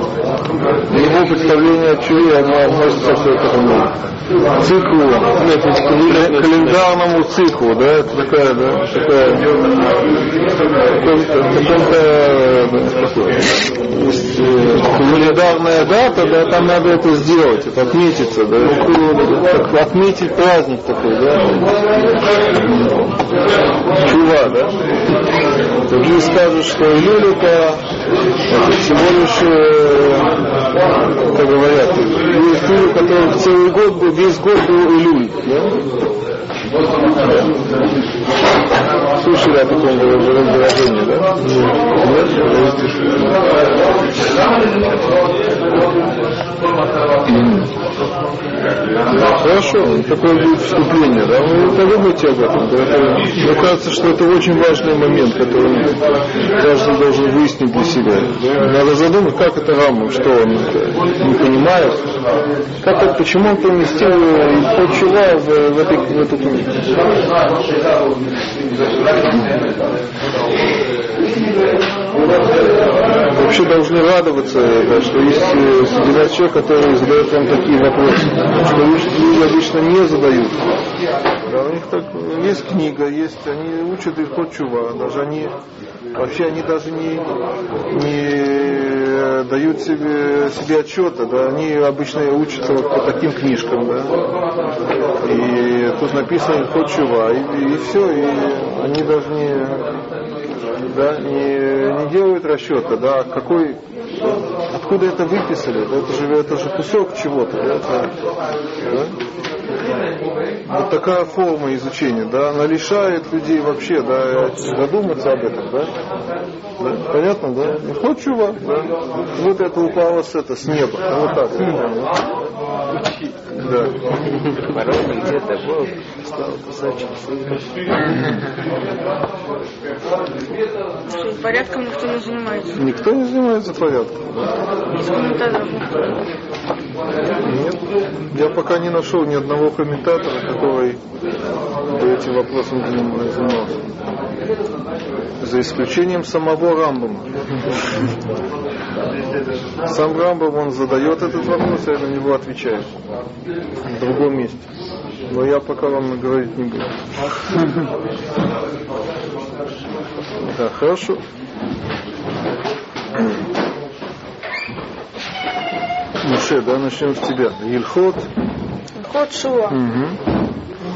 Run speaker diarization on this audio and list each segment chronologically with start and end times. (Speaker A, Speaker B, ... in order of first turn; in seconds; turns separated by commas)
Speaker A: 0.9-3.9, Speaker A: 4.6-9.6, Speaker A: 10.9-23.2, Speaker A: 24.0-24.8, Speaker A: 25.9-27.8, Speaker A: 28.5-30.4, Speaker A: 31.2-35.8, Speaker A: 39.2-43.4, Speaker A: 47.2-47.7, Speaker A: 49.1-62.1, Speaker A: 62.8-67.0, Speaker A: 73.3-80.7, Speaker A: 81.5-85.5, Speaker A: 86.1-87.2, Speaker A: 87.9-94.2, Speaker A: 95.2-99.8, Speaker A: 100.8-108.1, Speaker A: 108.8-109.2, Speaker A: 110.7-115.9, Speaker A: 116.8-122.2, Speaker A: 123.6-123.9, Speaker B: 124.3-127.6, Speaker C: 131.1-132.8, Speaker A: 132.7-134.5, Speaker C: 134.9-136.2, Speaker A: 137.4-141.0, Speaker A: 141.9-143.9, Speaker A: 145.4-147.3, Speaker A: 149.8-152.9, Speaker A: 153.8-154.7, Speaker A: 155.3-157.1, Speaker A: 160.4-161.2, Speaker A: 166.2-168.3, Speaker C: 169.0-169.8, Speaker A: 169.7-170.2